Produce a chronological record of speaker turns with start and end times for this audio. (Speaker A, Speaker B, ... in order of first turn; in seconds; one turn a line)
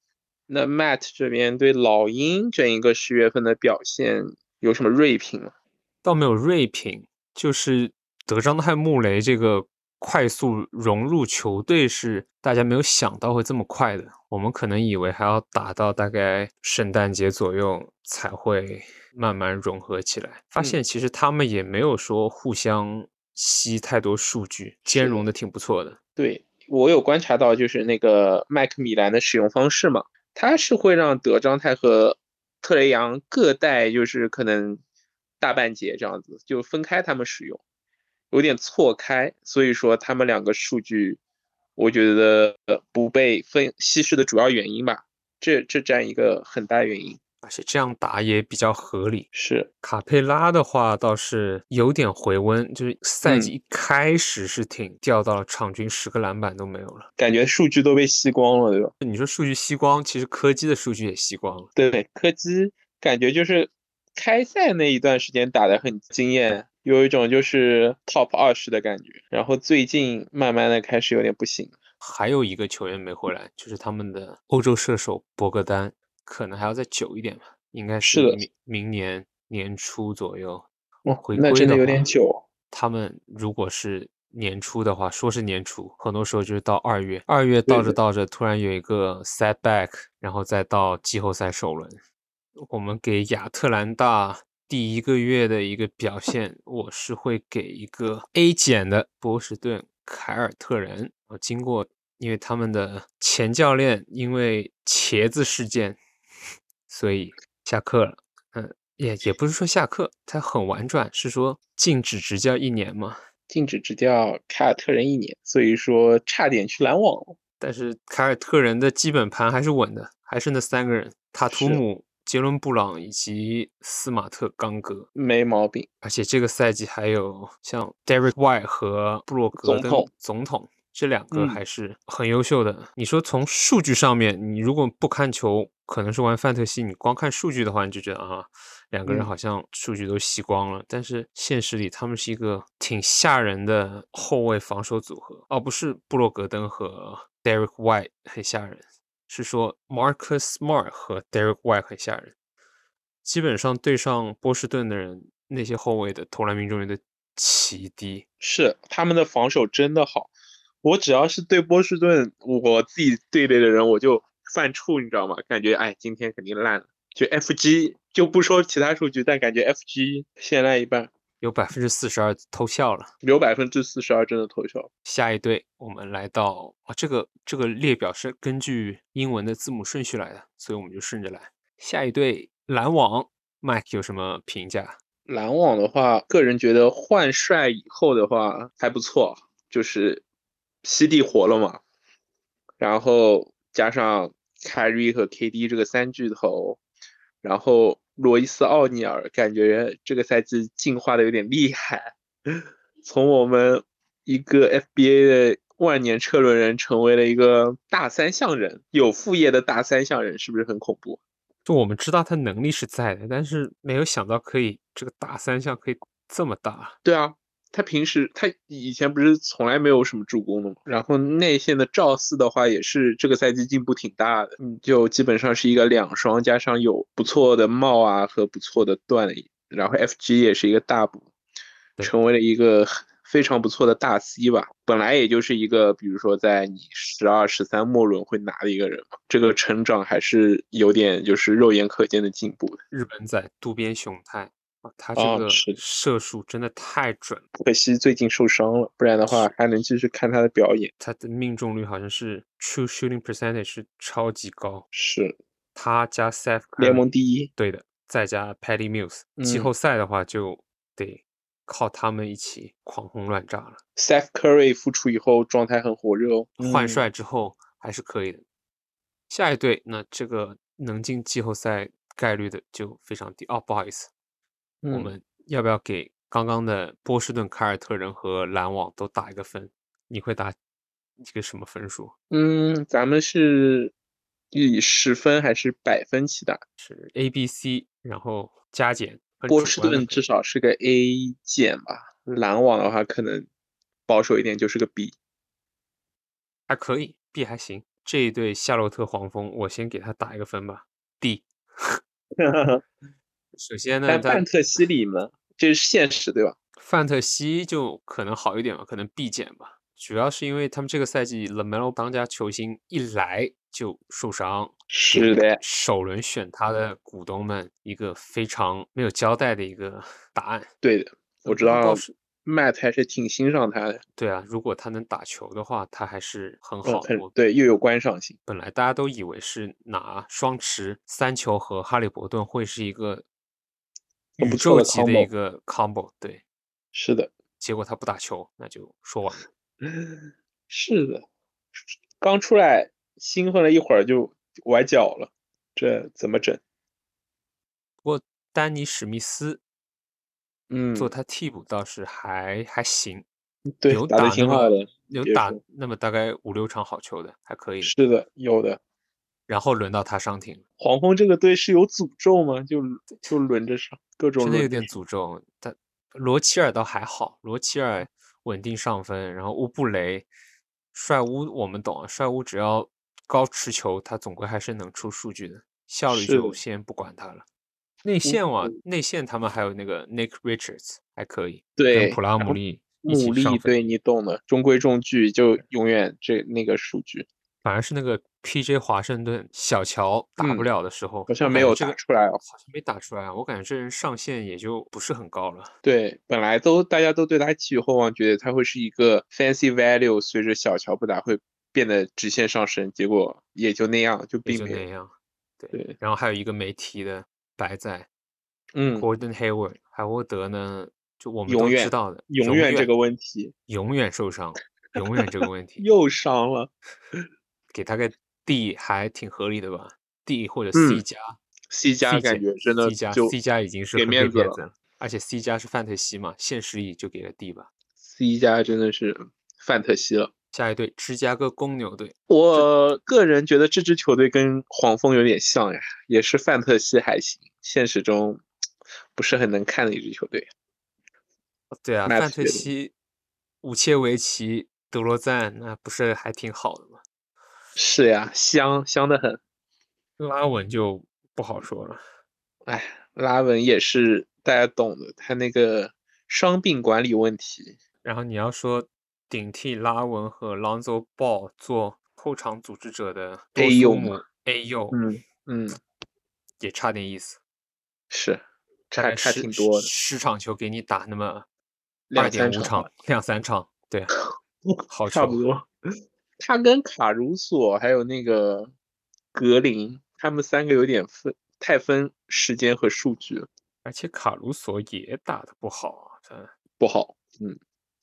Speaker A: 0.5-5.5
Speaker B: 6.0-26.0
Speaker A: 24.9-25.3
Speaker A: 26.2-34.8
Speaker A: 35.4-37.6
Speaker A: 38.3-41.2
Speaker A: 41.8-47.2
Speaker B: 47.4-49.3
Speaker A: 49.3-49.7
Speaker B: 49.8-57.1
Speaker A: 53.2-53.5
Speaker A: 57.2-58.9
Speaker B: 59.0-61.7
Speaker A: 61.8-71.8
Speaker B: 72.0-80.7
Speaker A: 78.0-78.4
Speaker A: 81.0-82.4
Speaker B: 81.2-82.1
Speaker B: 82.7-92.0
Speaker A: 87.7-88.0
Speaker B: 92.6-106.0
Speaker B: 106.9-113.2
Speaker A: 113.5-117.4
Speaker B: 117.6-125.1
Speaker A: 121.5-121.8
Speaker A: 125.1-125.9
Speaker B: 126.0-152.3
Speaker A: 129.6-130.1
Speaker A: 131.3-131.6
Speaker B: 153.2-158.2
Speaker A: 158.4-160.3
Speaker A: 160.8-171.1
Speaker B: 171.4-173.1
Speaker A: 173.2-174.9
Speaker B: 175.1-185.0
Speaker A: 185.3-190.2
Speaker A: 190.8-191.8
Speaker A: 192.8-196.8
Speaker A: 197.4-211.2
Speaker B: 211.7-217.0
Speaker A: 217.0-231.2
Speaker A: 232.0-242.8
Speaker B: 242.9-247.4
Speaker A: 245.2-245.8
Speaker A: 247.6-250.9
Speaker B: 251.0-254.8
Speaker A: 254.9-255.4
Speaker B: 255.7-257.0
Speaker A: 256.8-257.5
Speaker B: 257.6-263.8
Speaker A: 259.4-259.7
Speaker A: 264.0-267.0
Speaker B: 266.6-268.4
Speaker B: 269.3-274.1
Speaker A: 274.8-275.1
Speaker B: 274.9-280.6
Speaker B: 281.2-282.1
Speaker A: 282.3-283.9
Speaker A: 284.5-286.6
Speaker B: 286.8-290.2
Speaker A: 289.5-293.5
Speaker A: 294.1-295.1
Speaker B: 296.7-302.0
Speaker A: 302.4-302.8
Speaker B: 303.6-304.5
Speaker A: 304.1-306.6
Speaker B: 306.8-320.7
Speaker A: 314.9-315.6
Speaker A: 320.8-324.0
Speaker B: 321.4-322.1
Speaker B: 324.1-327.3
Speaker A: 326.8-328.4
Speaker B: 328.4-333.2
Speaker B: 334.4-336.4
Speaker A: 334.4-335.3
Speaker A: 336.9-337.3
Speaker B: 337.6-339.4
Speaker A: 339.8-340.2
Speaker A: 340.7-341.2
Speaker A: 342.2-346.6
Speaker B: 348.0-349.6
Speaker A: 350.7-351.1
Speaker B: 350.9-353.2
Speaker A: 353.8-355.6
Speaker B: 353.9-357.9
Speaker A: 357.8-358.8
Speaker B: 359.5-360.6
Speaker A: 360.8-364.9
Speaker B: 364.4-370.3
Speaker B: 370.9-377.4
Speaker A: 376.1-376.6
Speaker B: 378.0-383.8
Speaker A: 378.2-378.7
Speaker A: 381.8-387.3
Speaker B: 387.6-395.7
Speaker A: 390.4-390.7
Speaker A: 391.3-392.4
Speaker A: 395.8-404.8
Speaker B: 404.4-408.1
Speaker A: 408.7-409.1
Speaker B: 408.9-412.9
Speaker A: 411.5-413.5
Speaker B: 413.7-415.8
Speaker A: 415.8-417.2
Speaker B: 417.7-421.4
Speaker A: 420.7-421.0
Speaker A: 421.7-423.3
Speaker B: 422.0-427.7
Speaker A: 423.9-424.6
Speaker A: 428.0-430.3
Speaker B: 430.5-432.7
Speaker A: 432.3-438.4
Speaker A: 439.1-440.5
Speaker B: 441.8-442.9
Speaker A: 442.1-442.7
Speaker B: 443.6-447.0
Speaker A: 447.8-449.4
Speaker B: 450.2-452.0
Speaker A: 452.6-457.8
Speaker B: 458.0-465.0
Speaker A: 463.6-464.2
Speaker A: 464.9-465.8
Speaker B: 466.6-467.4
Speaker A: 468.1-469.9
Speaker B: 468.9-471.4
Speaker A: 472.1-472.9
Speaker B: 472.1-474.1
Speaker A: 474.7-475.7
Speaker B: 474.9-475.4
Speaker A: 476.4-478.7
Speaker A: 479.3-483.5
Speaker B: 483.8-486.5
Speaker A: 486.8-487.6